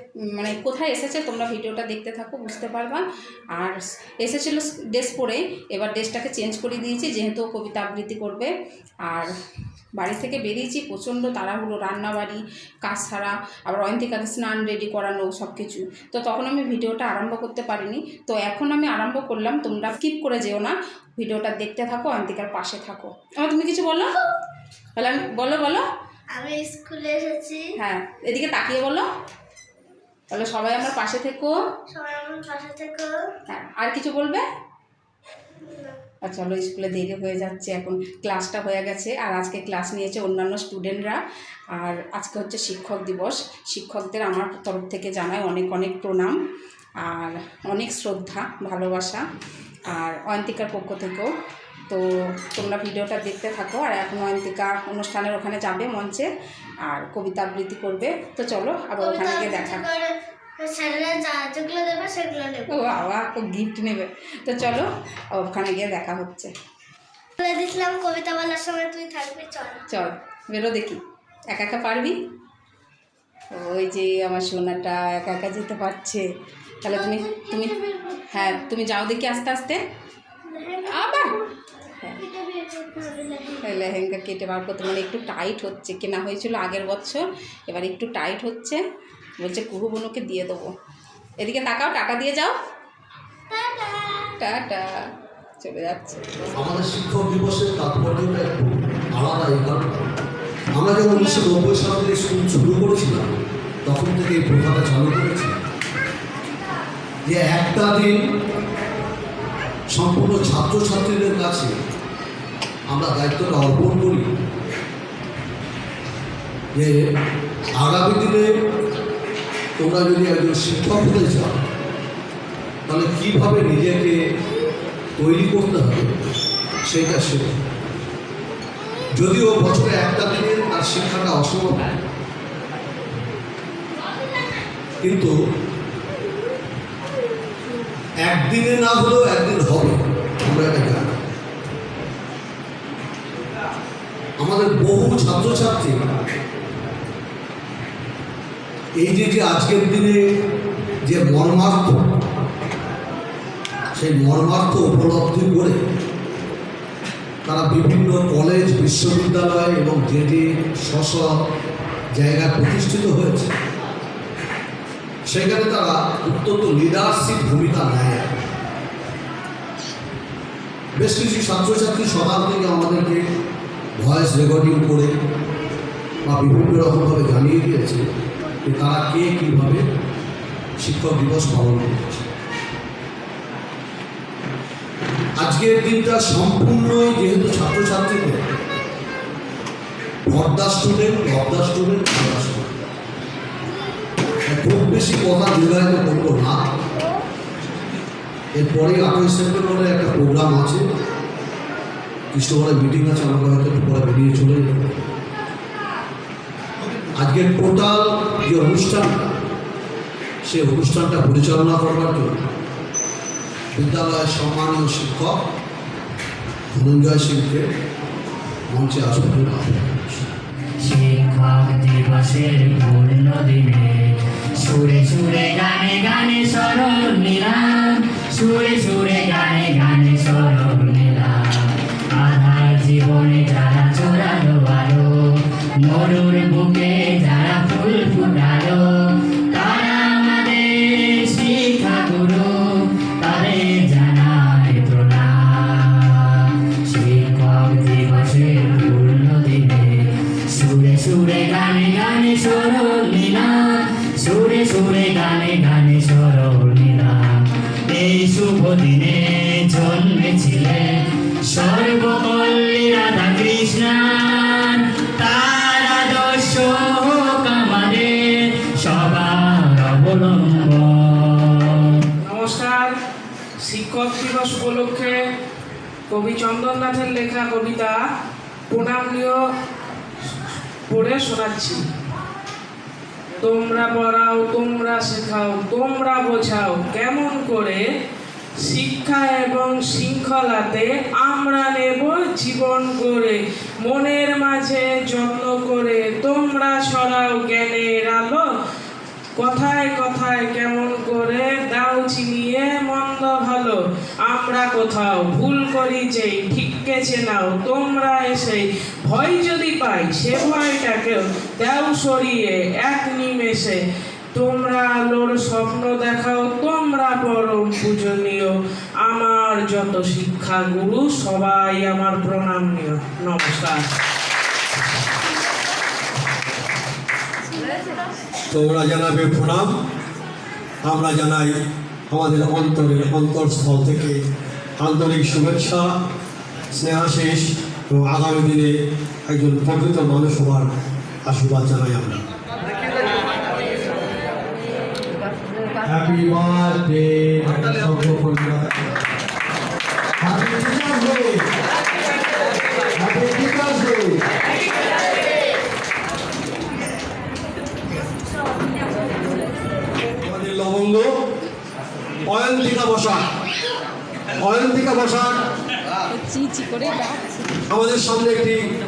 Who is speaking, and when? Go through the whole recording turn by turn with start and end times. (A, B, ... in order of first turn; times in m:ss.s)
0:00.3-0:03.0 A
0:03.6-0:08.5 A
0:09.1-0:09.3 A
0:10.0-0:24.2 A
0:25.0-0:25.8 A
0:26.3-0:27.6 B
0:27.8-0:29.0 A
0:30.3-0:31.5 A
0:31.9-0:33.1 B
0:33.5-0:34.4 A
0:36.2-0:41.2 A
0:41.7-0:46.4 A
0:47.0-0:49.2 A
0:49.9-0:51.3 A
0:51.9-0:56.3 A
0:56.9-0:59.8 A
0:59.0-1:02.7 B
1:02.7-1:06.5 A
1:07.4-1:09.8 B
1:09.9-1:12.2 A
1:13.6-1:16.2 A
1:16.8-1:17.8 A
1:16.9-1:18.5 B
1:18.3-1:19.8 A
1:20.5-1:21.5 B
1:20.9-1:21.4 A
1:22.2-1:23.7 B
1:23.6-1:28.8 A
1:29.4-1:30.7 A
1:31.4-1:32.6 A
1:33.5-1:34.3 B
1:34.4-1:35.0 A
1:35.6-1:36.2 A
1:36.6-1:40.0 C
1:40.8-1:43.3 C
1:43.8-1:45.6 C
1:47.3-1:48.1 C
1:49.9-1:51.7 C
1:52.9-1:54.3 C
1:56.7-1:57.0 C
1:57.8-1:58.5 C
1:59.8-2:01.5 C
2:02.9-2:04.2 C
2:05.2-2:06.1 C
2:06.9-2:07.5 C
2:09.2-2:11.9 C
2:15.0-2:15.3 C
2:18.2-2:21.2 C
2:24.4-2:26.0 C
2:29.0-2:30.2 C
2:31.1-2:32.0 C
2:34.0-2:35.8 C
2:37.4-2:41.3 C
2:42.2-2:43.6 C
2:45.3-2:48.3 C
2:51.0-2:53.2 C
2:54.0-2:55.1 C
2:56.2-2:58.0 C
2:58.7-2:59.8 C
3:00.8-3:02.3 C
3:05.4-3:08.4 C
3:10.3-3:12.8 C
3:14.5-3:16.7 C
3:18.6-3:20.8 C
3:22.3-3:25.0 C
3:27.2-3:29.3 C
3:30.4-3:32.3 C
3:33.8-3:35.4 C
3:36.8-3:37.7 C
3:38.7-3:40.3 C
3:40.8-4:32.0 D
4:32.2-4:32.9 E
4:33.6-4:35.2 E
4:36.1-4:38.0 E
4:38.7-4:39.4 E
4:40.9-4:41.8 E
4:43.4-4:47.8 E
4:48.6-4:58.4 E
4:59.4-5:03.8 E
5:04.3-5:13.8 E
5:14.3-5:18.5 E
5:19.0-5:23.9 E
5:28.5-5:29.8 F
5:30.8-5:31.5 F
5:32.1-5:34.2 F
5:34.8-5:35.9 F
5:36.7-5:38.7 F
5:39.3-5:40.7 F
5:41.3-5:42.2 F
5:45.9-5:48.9 F
5:50.2-5:51.5 F
5:53.0-5:54.2 F
6:00.2-6:01.1 F
6:02.3-6:03.2 F
6:04.4-6:05.4 F
6:06.1-6:07.6 A
6:07.7-6:08.6 F